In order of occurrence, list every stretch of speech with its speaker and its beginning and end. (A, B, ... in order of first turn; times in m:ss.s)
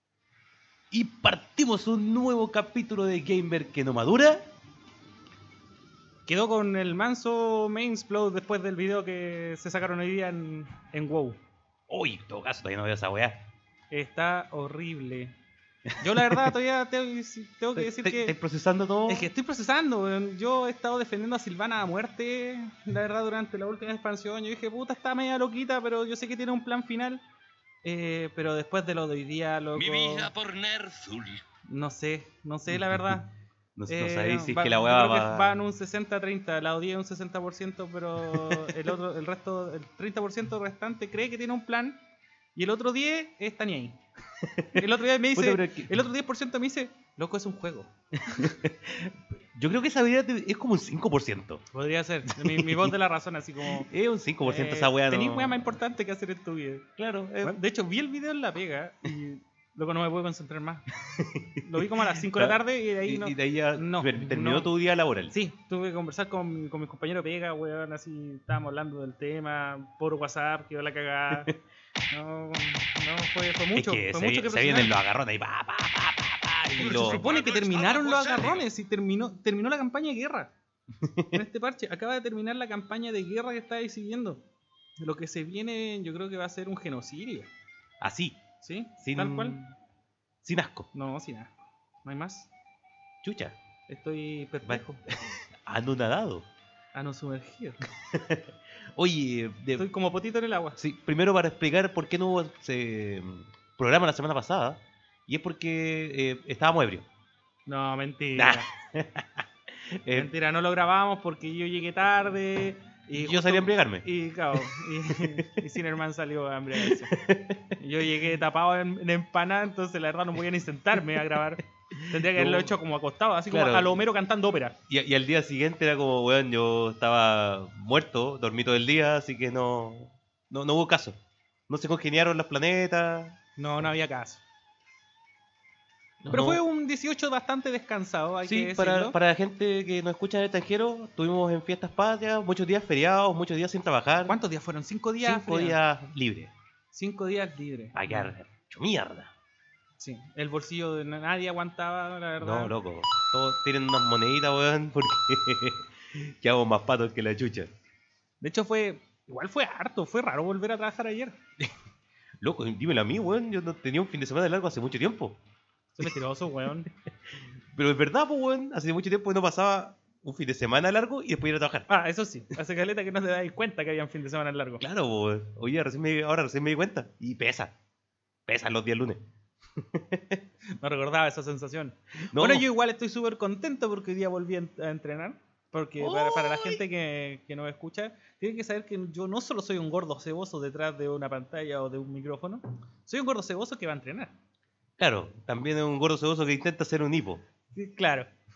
0:00.9-0:04.5 A
0:06.3-0:11.4 B
0:11.9-0:13.5 A
0:13.9-0:15.4 B
0:16.0-0:18.4 B
0:16.0-0:16.5 A
0:17.8-0:19.3 A
0:19.1-0:27.2 B
0:27.8-0:30.3 B
0:29.8-0:31.4 C
0:31.7-0:33.3 B
0:32.7-0:33.2 A
0:33.8-0:35.6 A
0:33.9-0:42.0 B
0:38.3-0:38.9 A
0:42.6-0:44.0 B
0:44.4-0:46.0 A
0:44.7-0:48.5 B
0:48.2-0:51.6 A
0:51.7-0:53.9 B
0:52.3-0:53.0 A
0:53.6-0:55.7 A
0:54.4-0:56.8 B
0:57.0-0:57.6 A
0:57.4-1:00.9 B
1:01.0-1:05.4 A
1:01.6-1:04.7 B
1:05.3-1:11.5 B
1:12.1-1:14.9 B
1:13.7-1:17.2 A
1:16.8-1:18.6 C
1:16.8-1:20.5 B
1:21.0-1:21.4 A
1:21.3-1:24.4 B
1:25.0-1:27.5 B
1:28.0-1:28.4 A
1:28.6-1:29.6 B
1:29.0-1:29.8 A
1:30.4-1:30.9 A
1:30.9-1:31.5 B
1:32.0-1:32.5 B
1:33.2-1:33.6 A
1:33.9-1:35.0 B
1:34.6-1:36.5 A
1:36.9-1:37.8 B
1:38.0-1:39.9 A
1:39.8-1:40.8 B
1:40.8-1:47.1 A
1:47.7-1:48.7 B
1:48.4-1:50.3 A
1:50.1-1:57.1 B
1:53.2-1:55.5 A
1:56.8-1:57.8 A
1:57.8-2:04.8 B
2:01.0-2:02.7 A
2:03.5-2:04.0 A
2:04.9-2:11.2 A
2:11.7-2:13.9 A
2:13.6-2:14.4 B
2:16.2-2:16.6 A
2:16.3-2:19.2 B
2:18.4-2:24.4 A
2:24.3-2:25.8 B
2:25.2-2:26.5 A
2:26.9-2:28.3 B
2:27.9-2:29.3 A
2:30.0-2:32.7 B
2:32.4-2:37.7 A
2:38.4-2:41.4 B
2:42.4-2:45.4 A
2:46.0-2:46.9 B
2:46.9-2:51.9 A
2:51.9-2:54.8 B
2:54.8-2:57.7 A
2:58.5-2:59.2 A
2:59.8-3:00.4 A
3:00.8-3:14.3 B
3:02.3-3:02.6 A
3:06.0-3:06.8 A
3:15.0-3:17.4 A
3:17.7-3:18.3 B